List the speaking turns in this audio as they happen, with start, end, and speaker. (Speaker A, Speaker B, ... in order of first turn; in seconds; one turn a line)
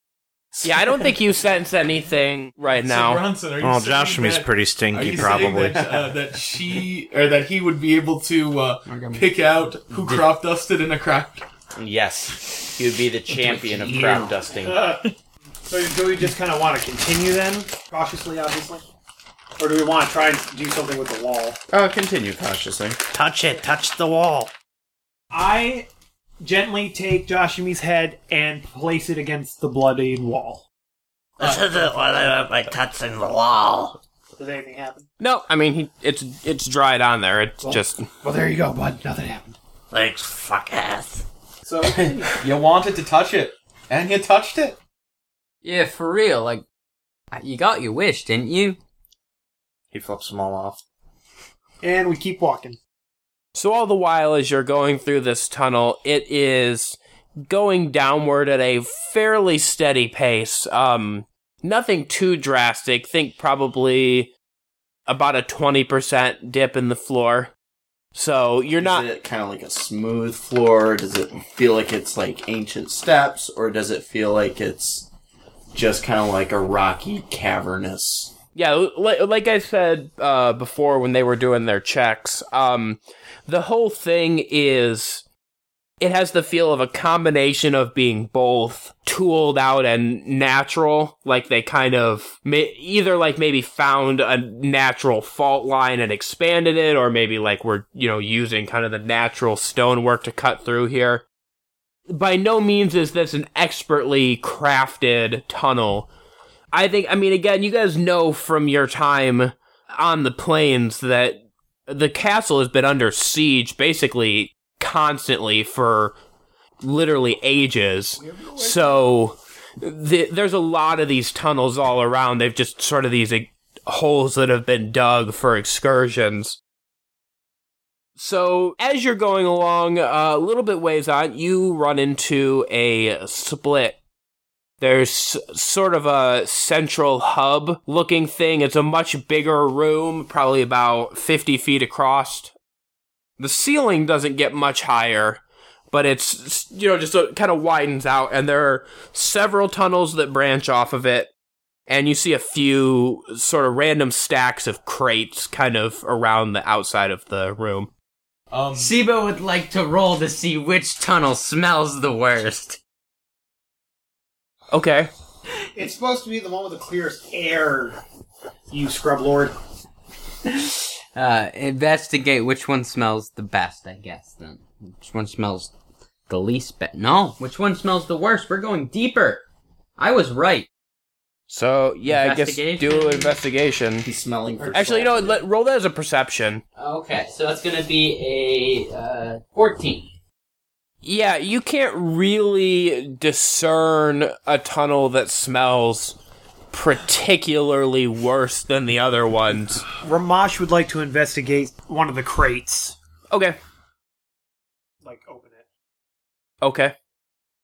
Speaker A: 0.6-3.2
Speaker B: 2.7-11.4
Speaker C: 3.6-5.9
Speaker D: 8.9-9.3
Speaker E: 11.8-14.9
Speaker B: 13.3-14.3
Speaker F: 14.7-15.0
Speaker F: 15.7-18.8
Speaker F: 19.6-21.6
Speaker E: 21.7-23.0
Speaker C: 23.1-24.5
Speaker F: 25.3-25.9
Speaker F: 26.4-30.6
Speaker C: 31.4-34.0
Speaker F: 34.4-35.1
Speaker A: 35.2-38.1
Speaker G: 37.6-39.6
Speaker C: 39.9-41.2
Speaker F: 41.6-42.4
Speaker B: 41.8-44.8
Speaker D: 45.6-46.6
Speaker D: 47.3-48.8
Speaker C: 49.9-50.8
Speaker F: 51.8-52.8
Speaker A: 53.5-64.3
Speaker A: 65.1-67.5
Speaker A: 68.1-69.1
Speaker E: 68.8-75.1
Speaker E: 75.7-78.3
Speaker A: 78.5-85.2
Speaker A: 86.0-101.2
Speaker A: 102.1-106.1
Speaker A: 106.7-116.2
Speaker A: 116.8-126.6
Speaker A: 128.2-134.0
Speaker A: 134.8-142.5
Speaker A: 143.4-151.3
Speaker A: 151.9-157.9
Speaker B: 158.5-159.0
Speaker D: 158.7-162.8
Speaker A: 164.7-165.1
Speaker F: 165.7-168.0
Speaker F: 168.7-169.6
Speaker D: 170.4-175.7
Speaker D: 176.3-179.4
Speaker D: 180.0-180.7
Speaker A: 181.5-184.1
Speaker D: 182.1-183.4
Speaker E: 184.0-185.4
Speaker F: 184.6-185.3
Speaker A: 184.7-186.6
Speaker D: 186.8-190.1
Speaker A: 191.0-196.2
Speaker A: 196.7-199.8
Speaker F: 200.0-202.9
Speaker A: 203.3-203.6
Speaker F: 205.0-205.7
Speaker A: 206.6-206.9